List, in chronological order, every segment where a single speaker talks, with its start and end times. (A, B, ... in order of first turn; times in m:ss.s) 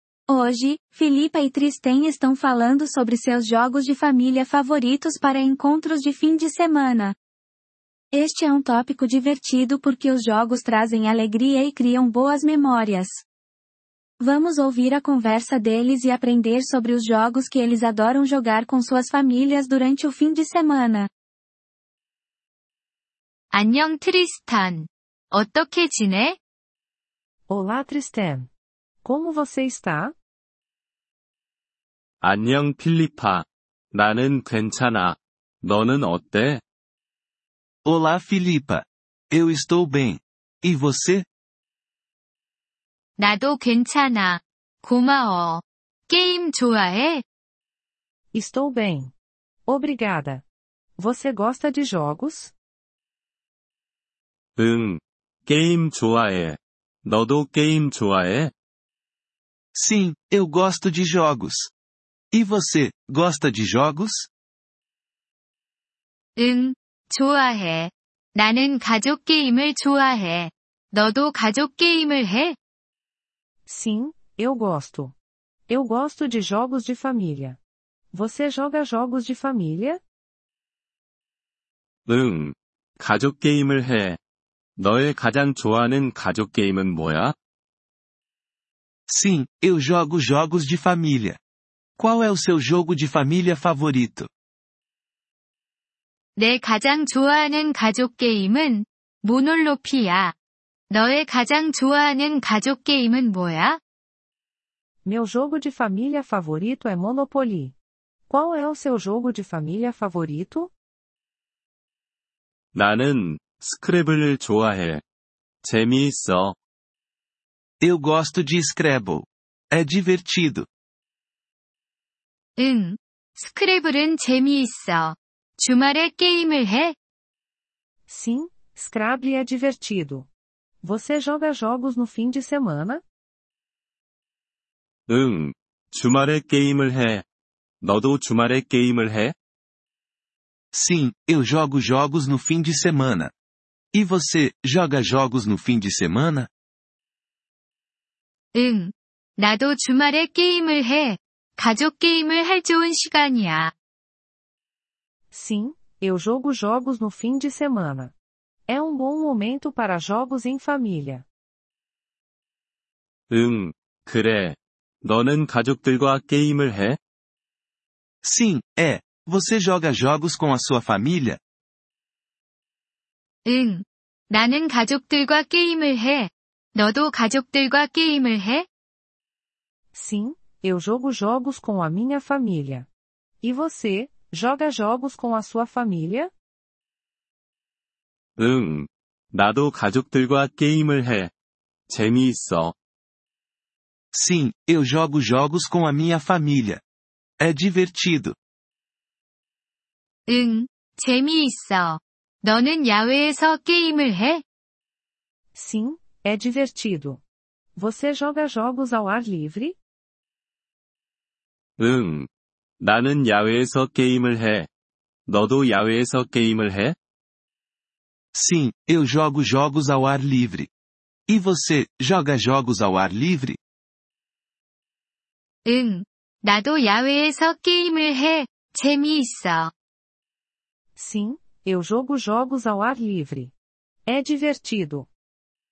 0:00.3-0:07.1 A
0:08.1-0:13.2 A
0:14.2-0:21.1 A
0:23.5-0:26.4 B
0:27.5-0:28.5 C
0:29.0-0:30.1 C
0:32.2-0:36.6 D
0:37.8-0:41.2 E
0:43.2-0:47.2 B
0:48.3-0:49.1 C
0:49.7-0:50.4 C
0:51.0-0:52.5 C
0:54.6-0:58.5 D
0:59.7-1:01.7 E
1:02.3-1:04.3 E
1:06.4-1:12.6 B
1:13.7-1:15.1 C
1:15.7-1:17.6 C
1:18.1-1:20.0 C
1:22.0-1:24.2 D
1:24.8-1:27.3 D
1:29.1-1:31.4 E
1:32.0-1:34.3 E
1:36.4-1:40.3 B
1:40.9-1:43.8 B
1:45.0-1:47.7 C
1:48.3-1:50.7 C
1:52.7-1:55.0 D
1:55.6-1:56.6 D
1:57.8-2:00.7 E
2:02.6-2:06.9 B
2:08.1-2:10.3 C
2:10.8-2:13.0 C
2:15.1-2:17.2 D
2:17.8-2:19.3 D
2:20.7-2:23.3 E
2:23.9-2:26.5 E
2:28.5-2:33.7 B
2:35.3-2:38.1 C
2:38.7-2:41.2 C
2:43.3-2:47.0 D
2:48.2-2:51.4 E
2:53.4-2:58.7 B
2:59.9-3:02.9 C
3:03.4-3:06.3 C
3:08.4-3:11.3 D
3:11.9-3:12.7 D
3:14.1-3:16.8 E
3:17.4-3:18.4 E
3:20.3-3:24.4 B
3:25.5-3:27.2 C
3:27.8-3:29.8 C
3:31.8-3:32.3 D
3:32.8-3:34.7 D
3:35.3-3:37.0 D
3:38.3-3:40.7 E
3:41.3-3:43.6 E
3:45.6-3:49.7 B
3:51.0-3:53.5 C
3:54.1-3:55.1 C